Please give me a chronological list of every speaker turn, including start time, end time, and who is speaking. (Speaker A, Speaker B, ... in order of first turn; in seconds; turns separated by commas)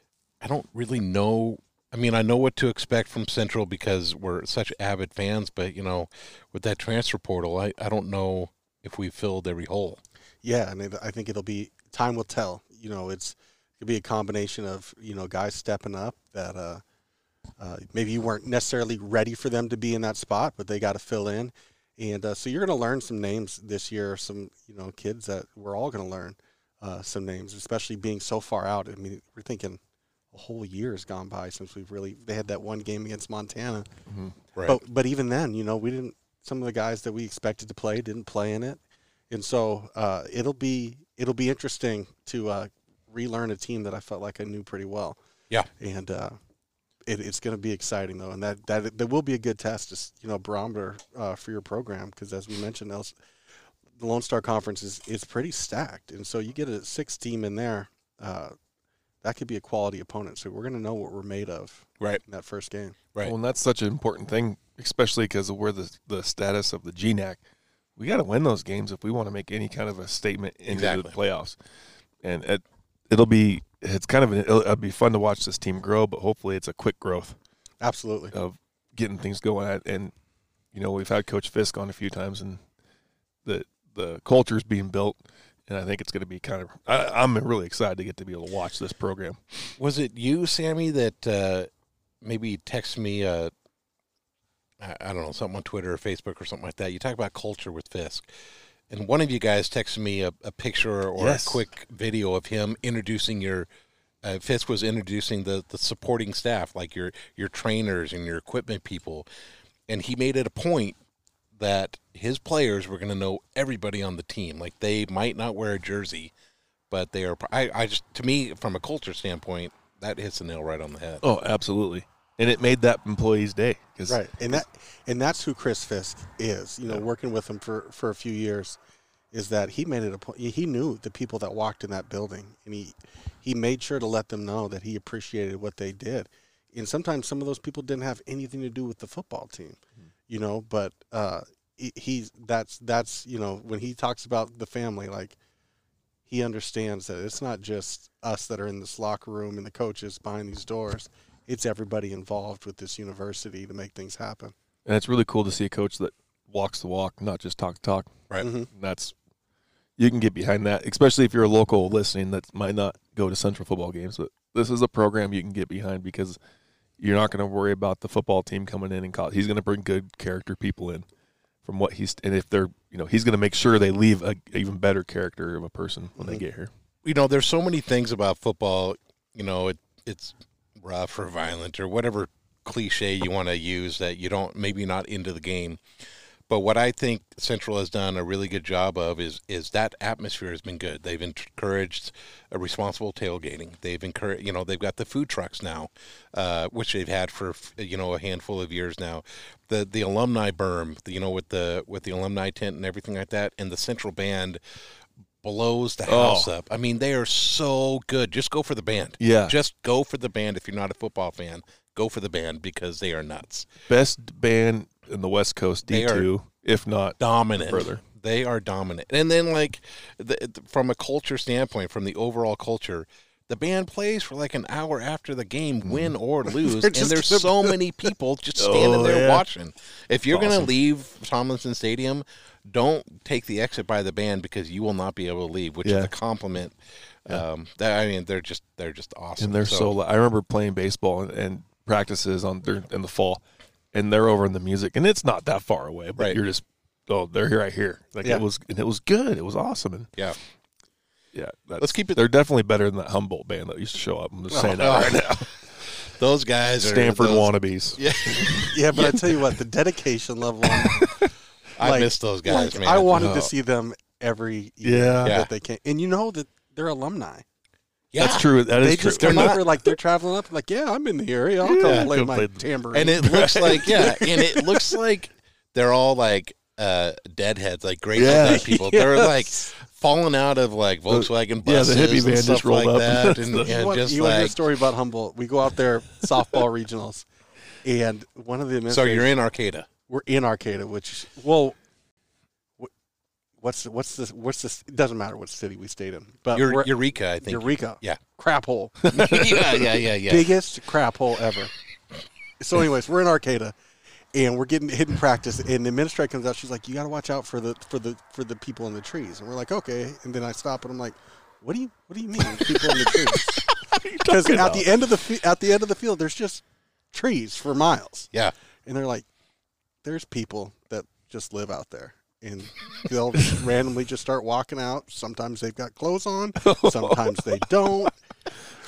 Speaker A: 0.4-10.0, Speaker B: 10.4-16.8, Speaker B: 17.6-29.8, Speaker B: 30.3-33.9, Speaker C: 34.1-34.3, Speaker A: 34.5-34.8, Speaker B: 34.7-38.8, Speaker B: 39.3-45.2, Speaker B: 45.8-46.4, Speaker B: 47.1-53.1, Speaker B: 54.0-58.5, Speaker B: 59.2-63.0, Speaker C: 63.2-67.4, Speaker C: 68.0-71.6, Speaker A: 70.7-71.1, Speaker C: 72.2-77.4, Speaker B: 77.8-78.3, Speaker C: 78.3-80.1, Speaker C: 80.7-82.6, Speaker C: 83.5-89.7, Speaker A: 89.8-91.7, Speaker A: 92.2-93.5, Speaker A: 94.8-98.3, Speaker A: 98.9-103.7, Speaker C: 101.2-101.6, Speaker A: 104.2-109.3, Speaker A: 109.9-111.0, Speaker A: 111.6-116.3, Speaker A: 116.9-121.2, Speaker C: 121.2-124.6, Speaker B: 124.1-128.8, Speaker B: 129.3-145.4, Speaker B: 146.3-154.5, Speaker C: 154.9-158.2, Speaker B: 158.4-158.7, Speaker C: 158.7-159.2, Speaker C: 160.0-166.4, Speaker C: 167.0-171.1, Speaker C: 171.6-176.7, Speaker B: 176.2-176.4, Speaker A: 177.1-185.8, Speaker A: 186.5-204.6, Speaker A: 205.4-213.7, Speaker C: 206.1-206.5, Speaker C: 209.2-209.6, Speaker C: 213.9-218.0, Speaker A: 215.9-216.3, Speaker A: 217.2-236.8, Speaker C: 225.8-226.1, Speaker B: 226.5-227.8, Speaker C: 228.6-229.4, Speaker C: 230.3-230.7, Speaker C: 235.8-236.1, Speaker A: 237.3-239.9, Speaker C: 239.4-243.4, Speaker C: 243.9-250.1, Speaker C: 251.3-255.5, Speaker A: 251.8-252.2, Speaker A: 254.7-255.5, Speaker A: 256.0-259.1, Speaker C: 256.8-259.1, Speaker B: 258.7-261.1, Speaker C: 260.8-261.3, Speaker A: 261.8-263.3, Speaker B: 261.8-267.4, Speaker C: 263.1-263.5, Speaker C: 264.8-265.4, Speaker A: 265.2-265.5, Speaker A: 268.1-268.5, Speaker C: 268.2-269.6, Speaker B: 268.8-274.6, Speaker A: 269.2-269.6, Speaker C: 271.6-274.1, Speaker A: 271.8-272.1, Speaker A: 272.9-284.6, Speaker C: 278.1-278.7, Speaker B: 278.3-279.7, Speaker C: 281.1-283.7, Speaker B: 283.6-287.3, Speaker B: 287.8-289.3, Speaker A: 288.9-289.9, Speaker B: 290.1-291.8, Speaker B: 293.6-299.4, Speaker A: 296.5-298.2, Speaker A: 299.1-300.5, Speaker C: 299.1-299.9, Speaker B: 300.3-301.7, Speaker B: 302.6-303.8, Speaker B: 304.3-313.6, Speaker C: 312.6-314.9, Speaker B: 314.2-318.3, Speaker B: 318.9-319.3, Speaker B: 320.0-328.1, Speaker C: 326.6-327.6